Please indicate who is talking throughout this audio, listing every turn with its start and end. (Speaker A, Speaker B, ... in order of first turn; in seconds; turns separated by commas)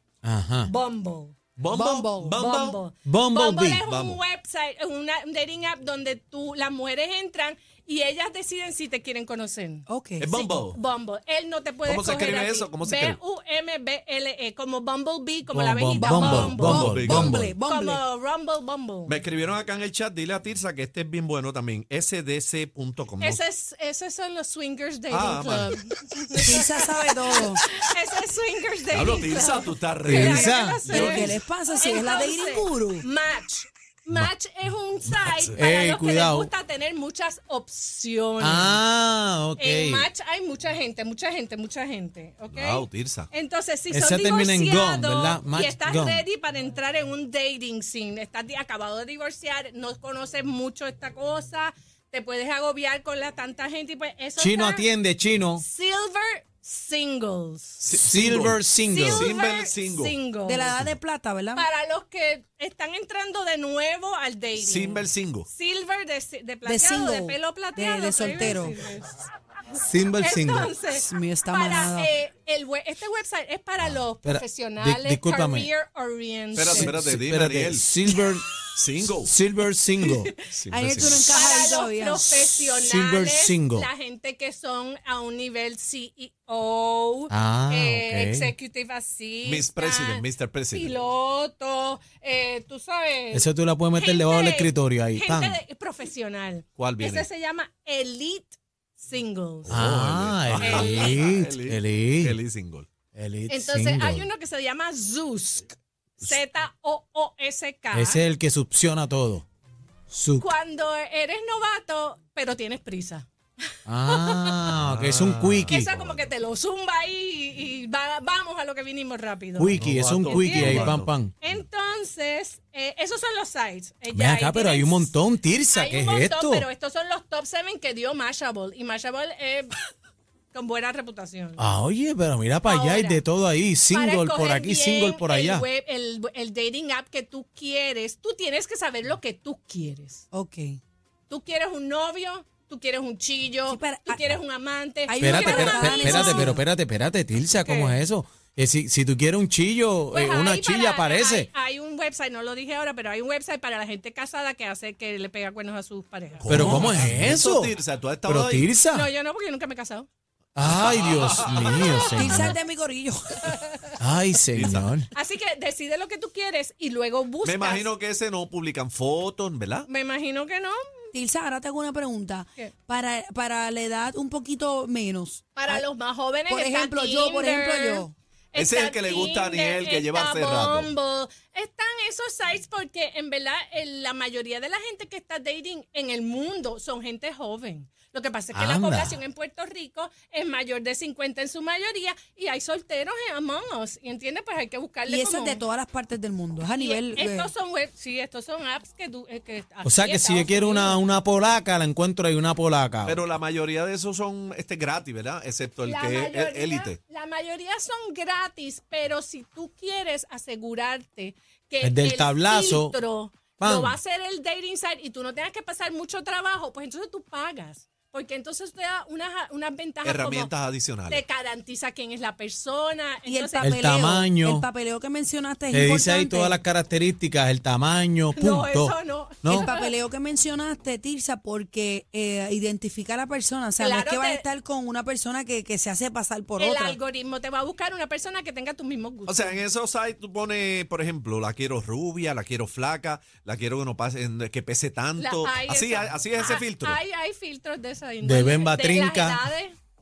Speaker A: 0.2-0.7, Speaker B: 0.6-1.3, Speaker C: 1.6-2.8, Speaker D: 1.7-2.4, Speaker B: 2.4-16.9, Speaker A: 3.0-3.8, Speaker C: 3.9-4.2, Speaker D: 9.9-10.5, Speaker C: 10.2-10.8, Speaker C: 11.8-13.2, Speaker A: 15.5-17.5, Speaker D: 15.9-18.0, Speaker C: 16.2-17.5, Speaker B: 17.6-19.2, Speaker C: 19.1-23.4, Speaker B: 23.2-38.8, Speaker C: 25.1-25.8, Speaker D: 26.4-27.6, Speaker C: 28.9-31.4, Speaker A: 30.1-30.8, Speaker D: 30.8-33.0, Speaker C: 35.1-35.6, Speaker A: 35.5-36.5, Speaker A: 38.4-40.1, Speaker B: 39.6-54.9, Speaker C: 42.5-43.3, Speaker A: 43.9-46.2, Speaker A: 54.4-55.6, Speaker B: 55.6-57.8, Speaker C: 57.8-60.2, Speaker A: 57.9-59.3, Speaker B: 58.9-60.7, Speaker D: 60.4-61.6, Speaker B: 61.5-69.2, Speaker C: 64.6-65.5, Speaker D: 66.6-68.8, Speaker A: 69.7-70.7, Speaker B: 70.2-76.9, Speaker D: 70.9-72.1, Speaker A: 74.2-75.7, Speaker C: 76.5-77.9, Speaker A: 76.7-78.5, Speaker C: 78.7-79.3, Speaker A: 79.1-80.3, Speaker C: 80.5-81.4, Speaker D: 80.7-82.5, Speaker B: 81.0-99.8, Speaker A: 82.7-83.9, Speaker A: 87.3-88.5, Speaker C: 89.4-90.9, Speaker A: 93.3-95.6, Speaker C: 96.8-97.3, Speaker C: 99.6-102.9, Speaker A: 99.7-102.3, Speaker B: 100.5-101.2, Speaker A: 103.1-104.3, Speaker B: 103.5-108.2, Speaker A: 107.9-109.4, Speaker A: 110.1-110.5, Speaker B: 110.4-114.7, Speaker A: 113.9-115.9, Speaker C: 114.7-116.2, Speaker B: 115.7-125.1, Speaker A: 119.6-121.3, Speaker C: 119.7-121.1, Speaker A: 124.1-126.7, Speaker B: 125.7-129.7, Speaker B: 130.5-131.6, Speaker A: 131.6-135.7, Speaker B: 132.6-133.2, Speaker B: 133.9-140.2, Speaker D: 140.3-140.8, Speaker B: 141.3-146.6, Speaker D: 143.7-144.4, Speaker D: 145.1-146.6, Speaker A: 145.2-151.5, Speaker B: 147.6-148.0, Speaker B: 150.1-156.9, Speaker C: 156.4-158.7, Speaker A: 156.5-157.7, Speaker A: 158.2-159.1, Speaker B: 158.9-160.1, Speaker A: 160.6-162.6, Speaker C: 160.7-161.9, Speaker B: 161.6-162.5, Speaker D: 162.2-163.7, Speaker A: 164.0-165.1, Speaker C: 164.5-164.9, Speaker B: 165.1-167.9, Speaker C: 167.4-169.9, Speaker B: 169.9-171.1, Speaker D: 171.1-175.8, Speaker B: 175.6-195.6, Speaker D: 176.5-178.1, Speaker C: 178.5-180.9, Speaker A: 188.5-189.2, Speaker D: 195.1-197.5, Speaker B: 196.8-201.0, Speaker A: 199.8-203.2, Speaker C: 203.0-207.0, Speaker B: 205.8-220.5, Speaker A: 211.8-212.9, Speaker A: 213.6-214.0, Speaker C: 220.0-221.2, Speaker B: 221.1-223.7, Speaker D: 223.2-226.6, Speaker A: 223.6-224.7, Speaker A: 225.7-229.7, Speaker B: 228.3-229.9, Speaker D: 229.4-237.0, Speaker B: 233.8-234.4, Speaker B: 236.6-239.6, Speaker C: 239.3-247.0, Speaker B: 245.2-249.7, Speaker A: 248.2-249.4